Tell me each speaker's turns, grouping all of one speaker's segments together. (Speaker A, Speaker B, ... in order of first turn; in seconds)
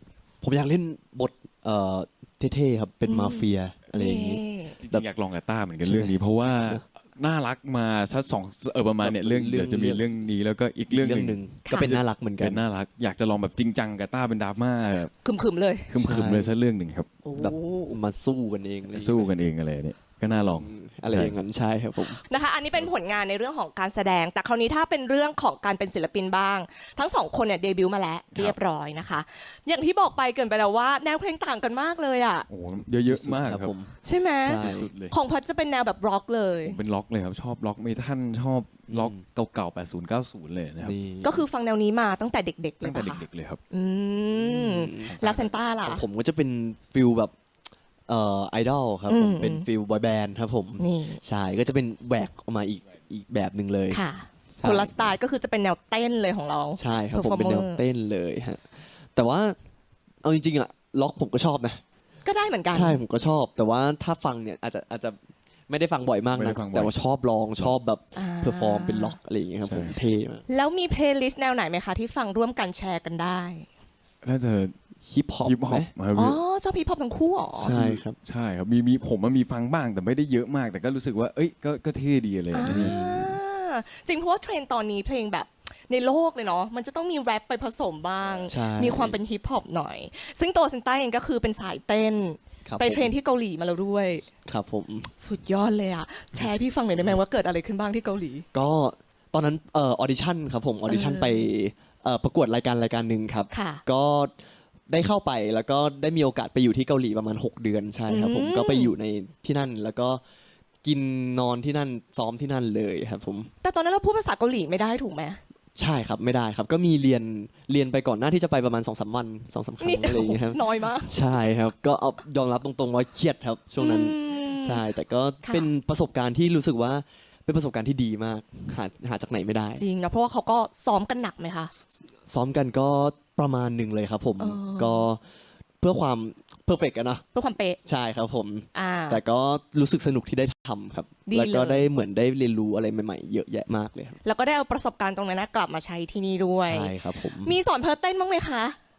Speaker A: 0.4-5.0, 5.8-6.8, 9.0-10.0, 10.9-12.6, 16.0-16.5, 17.3-19.3, 20.5-22.2, 32.9-34.9, 38.9-39.2, 40.8-41.4, 44.4-45.1, 45.8-47.3, 48.1-54.0, 54.5-55.1, 56.8-59.6, 60.2-61.8, 62.7-65.2, 65.7-70.4, 75.0-75.9, 77.5-78.2, 82.6-83.3, 88.5-89.2, 92.7-93.1, 94.4-95.1, 98.5-104.3, 104.9-110.2, 110.8-113.5, 115.7-129.8, 132.2-135.2, 135.8-137.2, 137.8-144.2, 146.5-147.6
Speaker B: 3.1-4.8, 11.7-11.9, 15.2-15.9, 17.2-18.0, 22.3-32.5, 34.0-36.8, 41.2-46.0, 49.1-49.7, 50.8-51.2, 53.9-57.8, 62.2-63.0, 68.2-69.2, 70.5-73.7, 76.1-77.7, 82.5-94.3, 95.2-98.5, 100.9-101.5, 103.5-103.8, 108.1-108.9, 113.6-115.4, 119.8-121.1, 123.8-124.8, 125.4-125.7, 129.8-131.7, 134.4-135.1, 137.3-137.8, 138.7-139.2, 141.3-141.9, 144.2-148.8
Speaker C: 4.8-15.1, 15.9-17.1, 18.9-21.3, 32.5-33.7, 34.4-35.1, 36.6-40.9, 42.8-43.6, 45.1-45.5, 66.3-66.9, 69.6-70.0, 74.2-74.7, 75.4-76.4, 77.7-83.0